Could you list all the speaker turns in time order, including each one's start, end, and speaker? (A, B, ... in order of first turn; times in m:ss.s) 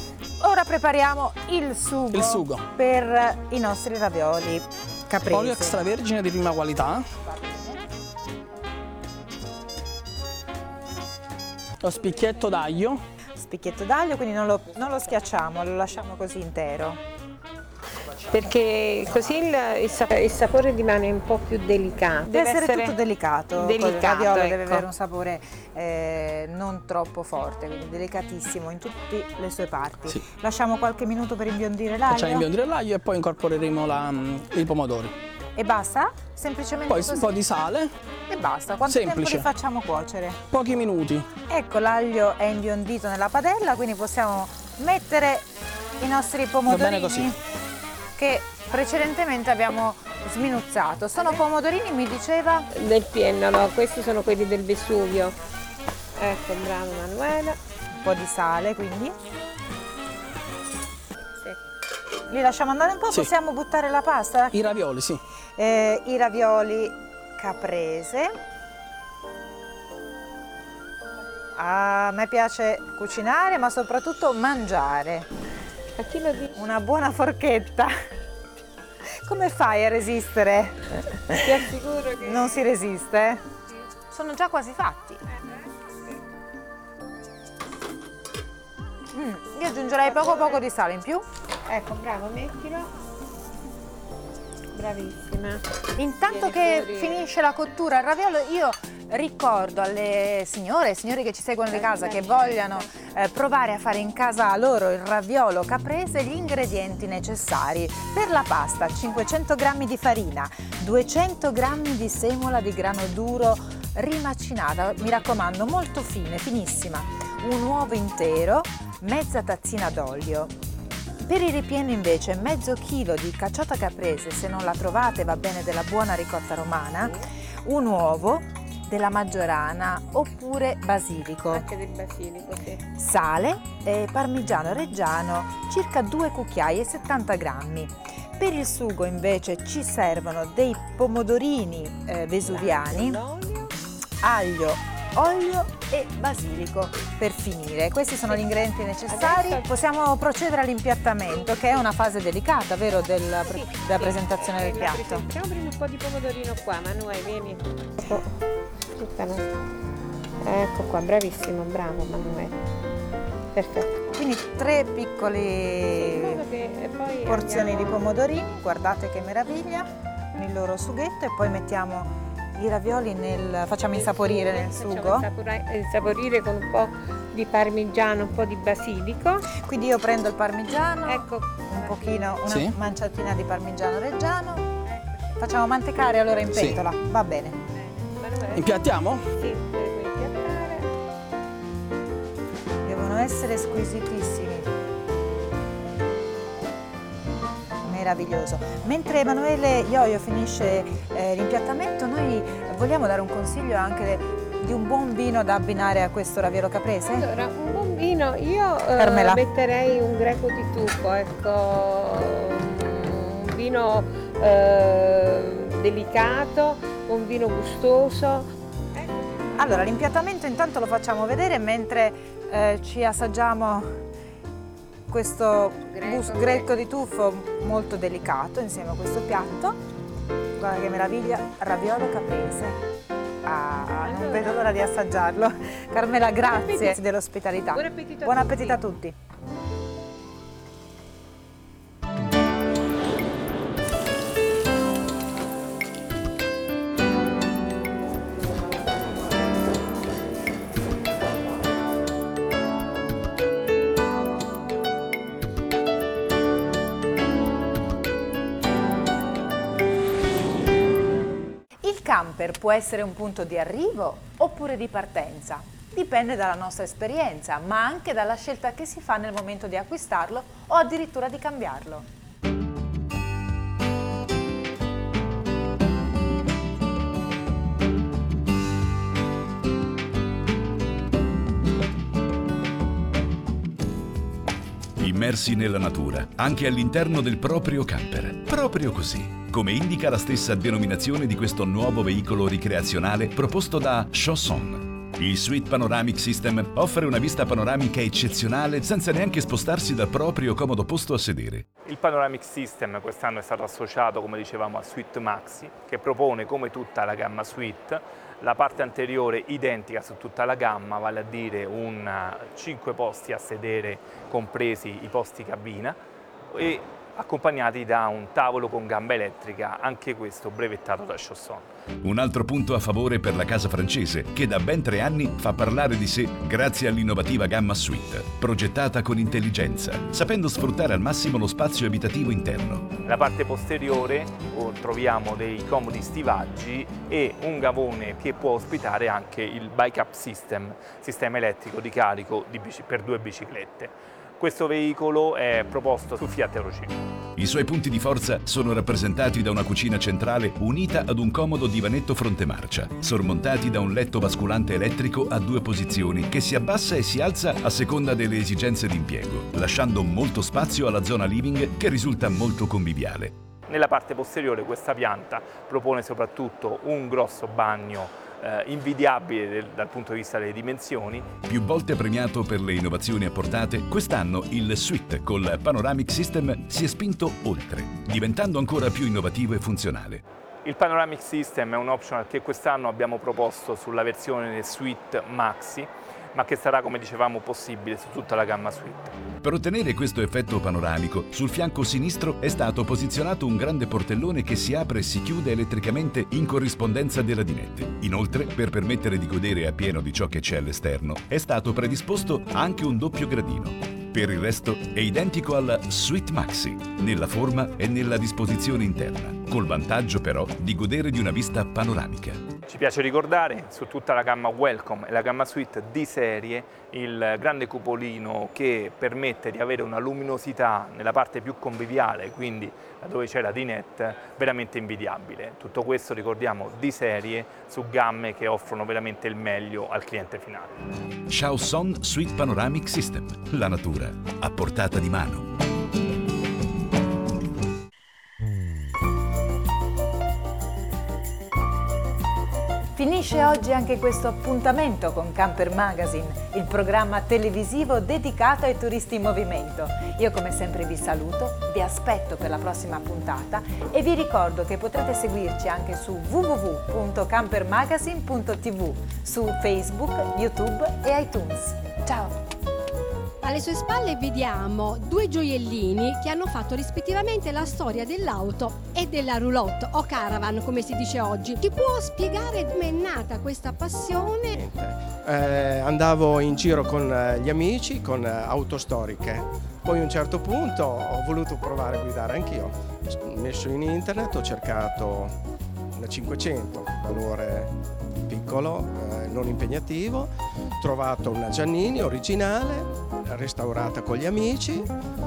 0:00.4-0:05.8 A
0:02.1-0:02.6 B
0:05.2-0:07.0 B
0:07.2-0:07.8 A
0:11.8-0:13.0 B
0:13.4-0:17.0 A
0:18.3-0:23.0 C
0:22.3-0:32.4 A
0:23.5-0:24.9 C
0:32.1-0:35.1 B
0:35.6-0:37.3 A
0:36.9-0:37.9 B
0:38.3-0:40.4 A
0:38.8-0:39.5 B
0:40.5-0:41.3 B
0:41.5-0:45.4 A
0:46.0-0:47.4 A
0:46.6-0:47.3 B
0:48.2-0:52.7 A
0:51.2-0:51.4 C
0:52.7-0:55.4 C
0:56.2-0:57.6 C
0:58.0-0:59.1 A
1:02.3-1:04.7 A
1:04.5-1:05.2 B
1:05.6-1:08.3 A
1:11.6-1:15.3 A
1:16.0-1:16.5 C
1:16.5-1:17.9 A
1:19.2-1:21.6 A
1:21.4-1:22.6 C
1:22.2-1:23.4 A
1:24.1-1:25.2 A
1:29.1-1:31.2 A
1:30.0-1:30.6 C
1:31.7-1:32.9 C
1:34.7-1:35.6 C
1:36.0-2:00.5 A
1:36.2-1:37.2 C
1:41.7-1:43.1 C
2:01.2-2:07.1 A
2:07.0-2:07.3 C
2:07.6-2:11.6 A
2:11.5-2:12.8 C
2:12.9-2:23.2 A
2:22.4-2:23.8 C
2:24.2-2:35.2 A
2:28.2-2:29.6 C
2:33.4-2:38.3 C
2:38.9-2:39.5 C
2:40.4-2:42.5 C
2:43.5-2:44.0 C
2:44.2-2:46.4 A
2:45.9-2:48.0 C
2:47.3-2:55.3 A
2:53.8-2:59.5 C
2:59.5-3:04.6 A
3:01.0-3:02.4 C
3:02.5-3:02.7 B
3:05.4-3:07.6 A
3:06.5-3:06.8 B
3:08.1-3:10.9 C
3:08.5-3:09.2 B
3:12.8-3:14.7 A
3:17.8-3:27.2 A
3:27.1-3:40.0 C
3:29.0-3:29.4 A
3:39.6-3:43.9 A
3:45.1-3:49.8 A
3:45.8-3:46.7 C
3:50.6-3:52.8 A
3:53.4-3:59.1 A
3:53.9-3:54.8 C
3:56.4-3:57.0 C
3:57.7-3:58.8 C
4:21.8-4:32.0 A
4:45.0-5:01.6 D
5:01.8-5:16.0 E
5:16.5-5:21.7 E
5:22.0-5:32.9 D
5:33.0-5:47.0 E
5:47.4-6:03.3 D
6:03.7-6:11.4 E
6:11.4-6:20.2 D
6:20.6-6:29.1 E
6:29.4-6:52.4 D
6:52.7-7:10.7 E
7:11.3-7:15.4 D
7:23.0-7:42.3 A
7:43.4-7:54.6 F
7:54.6-8:05.3 G
8:05.9-8:07.7 G
8:08.3-8:14.9 G